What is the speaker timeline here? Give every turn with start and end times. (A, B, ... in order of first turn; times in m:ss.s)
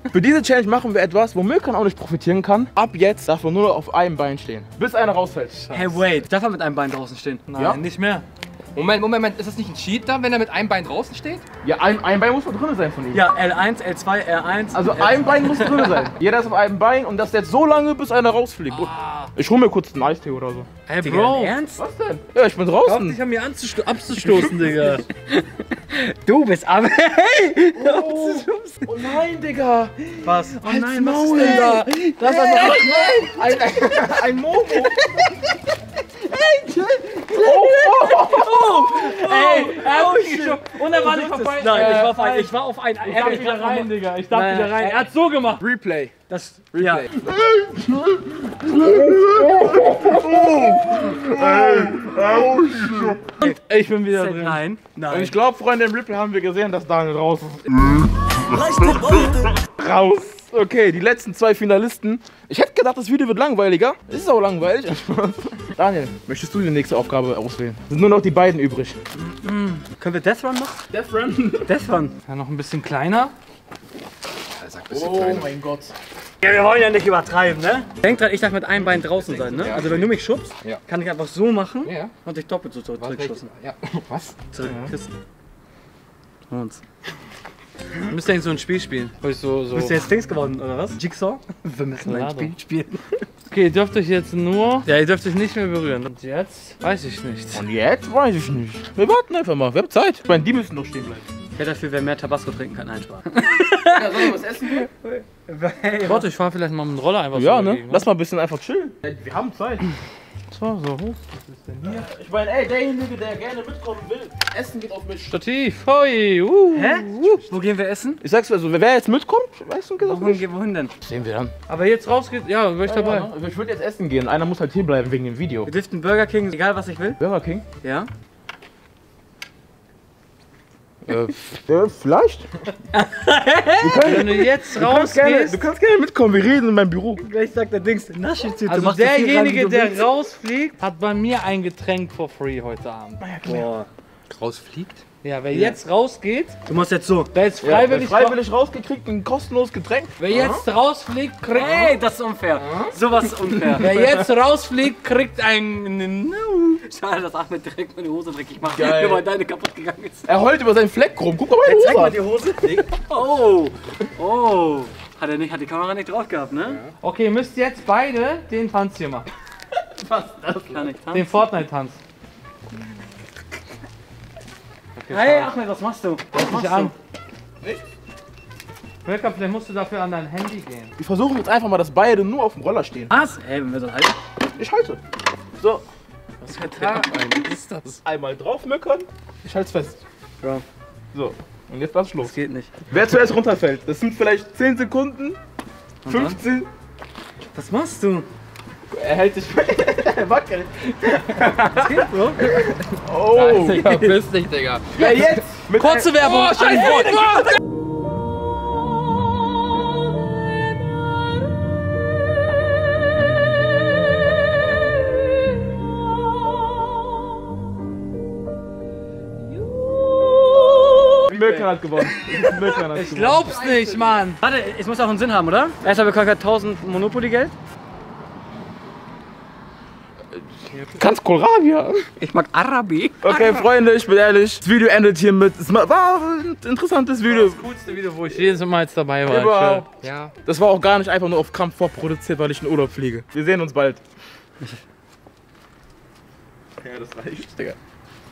0:00.1-0:05.8 A
0:05.7-0:07.5 B
0:07.5-0:08.2 C
0:08.7-0:11.4 D
0:11.6-0:13.3 A
0:13.1-0:16.1 B
0:14.7-0:20.7 A
0:18.7-0:19.3 C
0:20.9-0:21.6 C
0:21.0-0:21.8 B
0:21.8-0:23.2 A
0:22.8-0:25.1 C
0:24.2-0:29.2 B
0:27.8-0:35.3 A
0:30.2-0:30.6 B
0:30.5-0:31.9 C
0:31.3-0:35.4 B
0:36.3-0:45.1 B
0:37.3-0:38.8 A
0:38.3-0:45.6 C
0:41.7-0:42.1 A
0:45.6-0:46.1 A
0:46.3-0:47.1 B
0:46.8-0:47.3 D
0:47.2-0:53.3 A
0:49.9-0:51.2 D
0:53.4-0:54.6 C
0:53.4-0:55.4 B
0:55.1-0:57.7 A
0:58.5-0:59.6 B
0:59.5-1:09.0 A
1:09.2-1:10.8 B
1:10.9-1:11.7 A
1:11.7-1:12.2 B
1:12.2-1:13.3 C
1:14.5-1:15.5 D
1:14.9-1:15.9 A
1:16.4-1:23.5 B
1:19.0-1:20.1 A
1:19.6-1:20.8 D
1:21.8-1:22.1 D
1:23.0-1:24.4 D
1:24.5-1:25.1 B
1:24.6-1:24.9 A
1:26.5-1:26.8 B
1:28.1-1:30.0 C
1:29.7-1:33.0 B
1:32.0-1:32.5 C
1:33.5-1:37.7 C
1:37.5-1:41.2 A
1:41.6-1:46.3 B
1:43.9-1:44.9 A
1:46.1-1:48.1 C
1:47.4-1:49.9 A
1:50.5-1:52.1 C
1:51.8-1:55.3 A
1:55.3-1:57.4 C
1:56.7-1:58.2 B
1:58.2-2:00.4 A
2:00.0-2:00.9 B
2:01.0-2:01.5 A
2:01.7-2:03.3 C
2:02.9-2:05.7 A
2:05.7-2:07.2 B
2:07.2-2:07.6 A
2:07.8-2:08.1 B
2:11.1-2:12.5 A
2:12.9-2:14.4 B
2:13.8-2:17.2 A
2:13.9-2:15.7 C
2:17.2-2:20.2 B
2:18.6-2:23.4 C
2:23.2-2:23.7 A
2:23.4-2:23.9 B
2:24.3-2:25.0 D
2:25.2-2:26.6 C
2:25.5-2:25.8 B
2:26.7-2:27.3 B
2:27.3-2:28.4 C
2:27.6-2:30.6 A
2:30.2-2:32.0 C
2:31.4-2:34.0 B
2:32.5-2:33.0 A
2:33.5-2:34.1 A
2:33.8-2:36.8 C
2:36.8-2:40.3 B
2:38.7-2:39.3 A
2:40.3-2:42.2 A
2:41.6-2:46.8 B
2:47.0-2:49.3 C
2:50.0-2:51.4 B
2:51.1-2:52.0 C
2:55.0-2:55.5 C
2:55.1-2:56.9 B
2:56.3-2:56.9 C
2:59.0-3:01.0 C
3:01.0-3:03.1 A
3:03.1-3:04.2 B
3:04.6-3:05.0 A
3:05.6-3:05.8 A
3:06.5-3:07.0 A
3:06.5-3:07.8 B
3:06.5-3:07.8 C
3:08.0-3:10.0 A
3:11.1-3:12.3 A
3:12.2-3:12.8 B
3:12.9-3:15.4 A
3:16.0-3:16.4 B
3:16.0-3:16.7 A
3:17.5-3:18.3 B
3:18.9-3:24.2 A
3:21.7-3:22.5 B
3:23.3-3:25.4 D
3:24.9-3:26.4 A
3:25.0-3:27.5 C
3:26.5-3:26.9 B
3:41.3-3:43.6 A
3:41.4-3:41.7 C
3:42.2-3:47.6 B
3:42.9-3:44.4 C
3:50.9-3:52.0 A
3:52.2-3:53.6 B
3:53.2-3:57.6 A
3:57.3-3:59.9 C
3:59.3-3:59.9 A
4:00.0-4:00.4 D
4:00.4-4:04.0 A
4:06.8-4:07.8 A